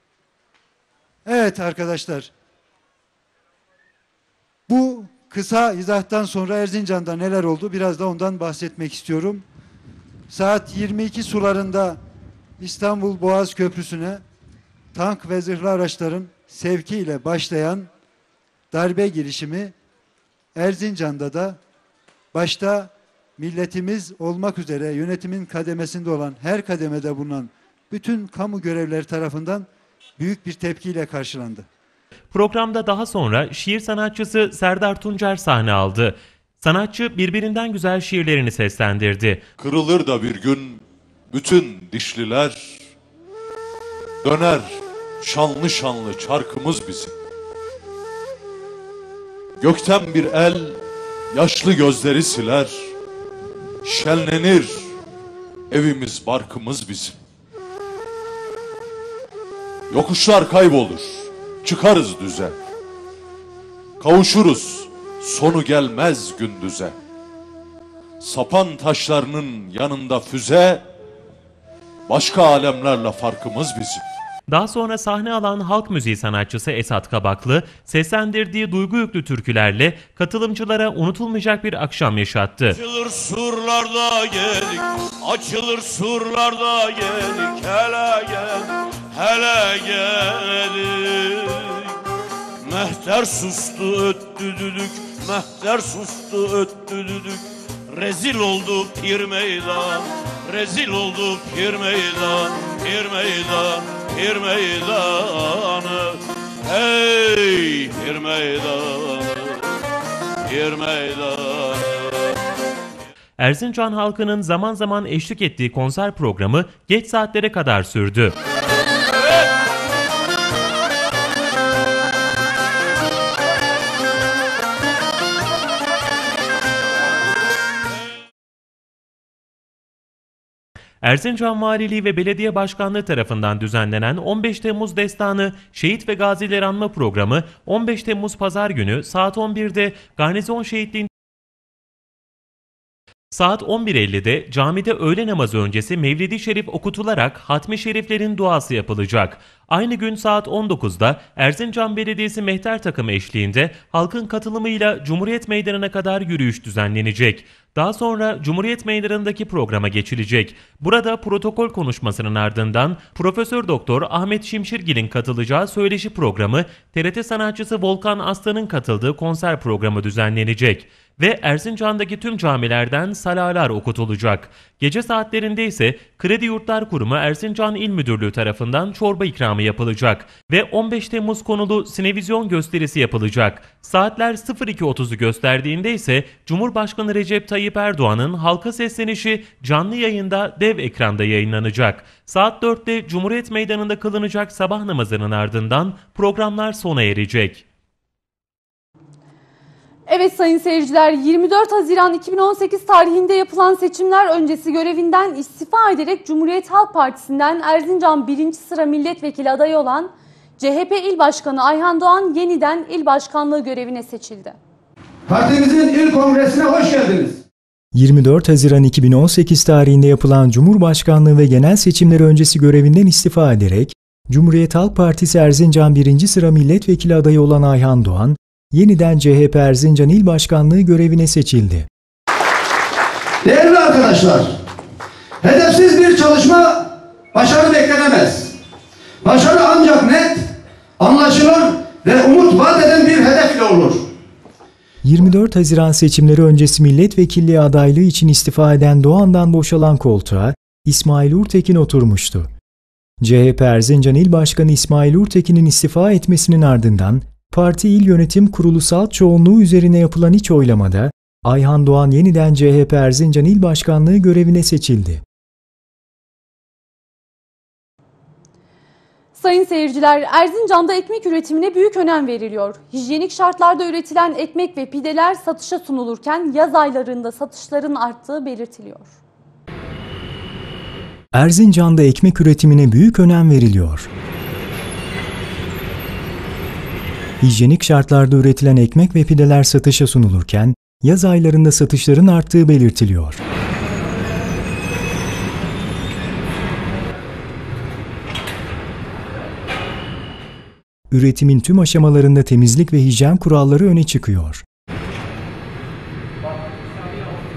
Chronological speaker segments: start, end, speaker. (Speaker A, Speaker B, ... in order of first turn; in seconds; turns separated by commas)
Speaker A: 1.2-2.3, Speaker A: 4.7-9.4, Speaker A: 10.3-12.0, Speaker A: 12.6-14.2, Speaker A: 14.9-17.9, Speaker A: 18.7-19.7, Speaker A: 20.6-21.6, Speaker A: 22.3-29.7, Speaker A: 30.2-31.7, Speaker B: 32.3-39.4, Speaker C: 39.6-42.8, Speaker C: 44.2-47.1, Speaker C: 49.6-50.8, Speaker C: 51.3-52.9, Speaker C: 53.8-54.9, Speaker C: 55.7-57.1, Speaker C: 59.9-62.5, Speaker C: 64.0-67.0, Speaker C: 68.2-70.8, Speaker C: 72.1-74.0, Speaker B: 74.5-82.8, Speaker D: 82.7-91.9, Speaker D: 92.6-109.6, Speaker D: 110.5-112.3, Speaker B: 113.4-118.4, Speaker B: 131.0-141.1, Speaker B: 143.3-197.7, Speaker E: 200.1-214.6, Speaker F: 215.3-217.4, Speaker G: 217.9-231.9, Speaker F: 233.4-234.6, Speaker F: 235.4-238.6, Speaker F: 239.2-244.1, Speaker G: 245.0-252.5, Speaker G: 253.2-265.2, Speaker E: 269.4-279.1, Speaker G: 281.3-284.1, Speaker G: 287.4-293.4, Speaker G: 301.1-304.6